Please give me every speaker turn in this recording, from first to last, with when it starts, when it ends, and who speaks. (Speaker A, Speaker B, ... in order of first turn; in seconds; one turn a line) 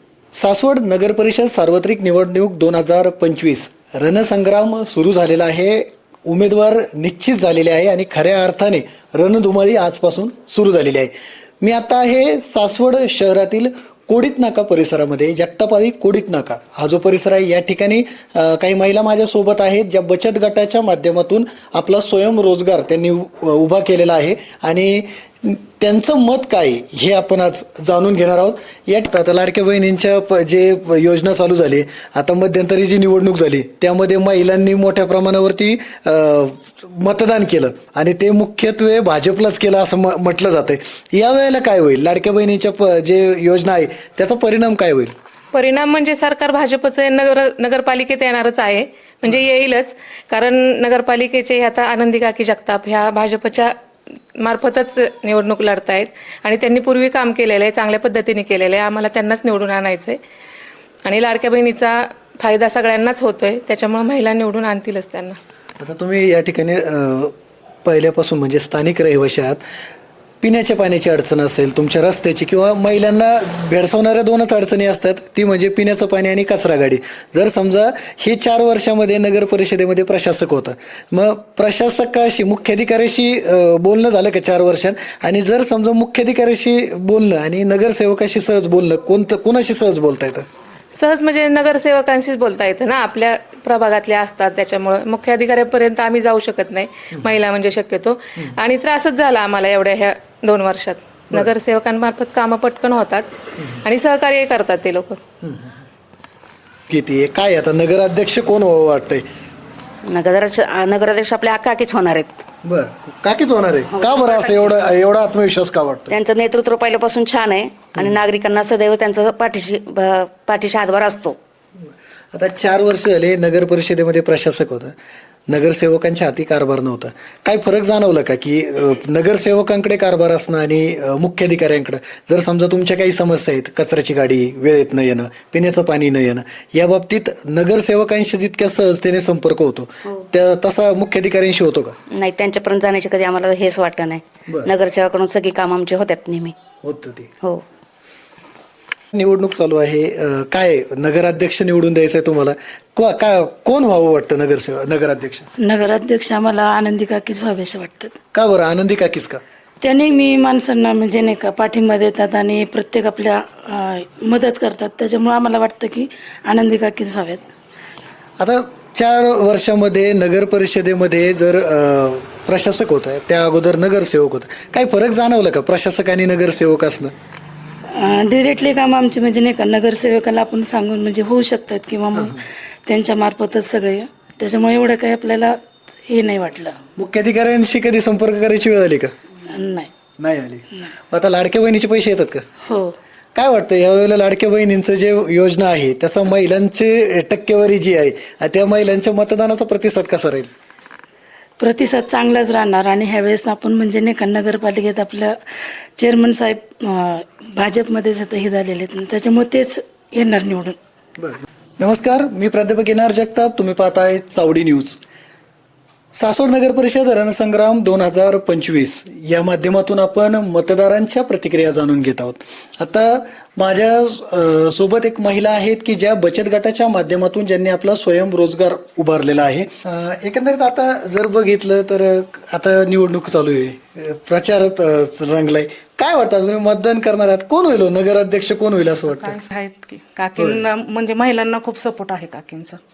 Speaker A: 0.3-45.1
Speaker B: 45.5-53.8
Speaker B: 54.4-60.2
Speaker B: 61.0-65.4
Speaker A: 65.8-69.6
Speaker A: 70.4-90.5
Speaker B: 90.9-103.3
Speaker B: 103.8-105.2
Speaker A: 105.4-105.7
Speaker A: 106.9-109.2
Speaker C: 110.0-112.4
Speaker A: 112.6-116.1
Speaker C: 113.9-114.8
Speaker C: 116.1-121.4
Speaker A: 122.3-124.9
Speaker A: 125.5-142.0
Speaker C: 142.1-146.6
Speaker A: 144.5-144.7
Speaker A: 146.8-147.3
Speaker A: 149.1-155.5
Speaker D: 155.6-158.2
Speaker A: 158.3-159.4
Speaker D: 159.8-167.5
Speaker A: 168.4-177.1
Speaker D: 177.9-186.8
Speaker A: 182.2-182.4
Speaker A: 186.9-189.1
Speaker D: 189.4-189.9
Speaker A: 190.2-192.4
Speaker D: 192.6-192.9
Speaker A: 193.3-200.5
Speaker D: 201.6-205.3
Speaker D: 206.0-210.8
Speaker A: 211.2-215.0
Speaker A: 216.1-239.4
Speaker E: 239.1-242.8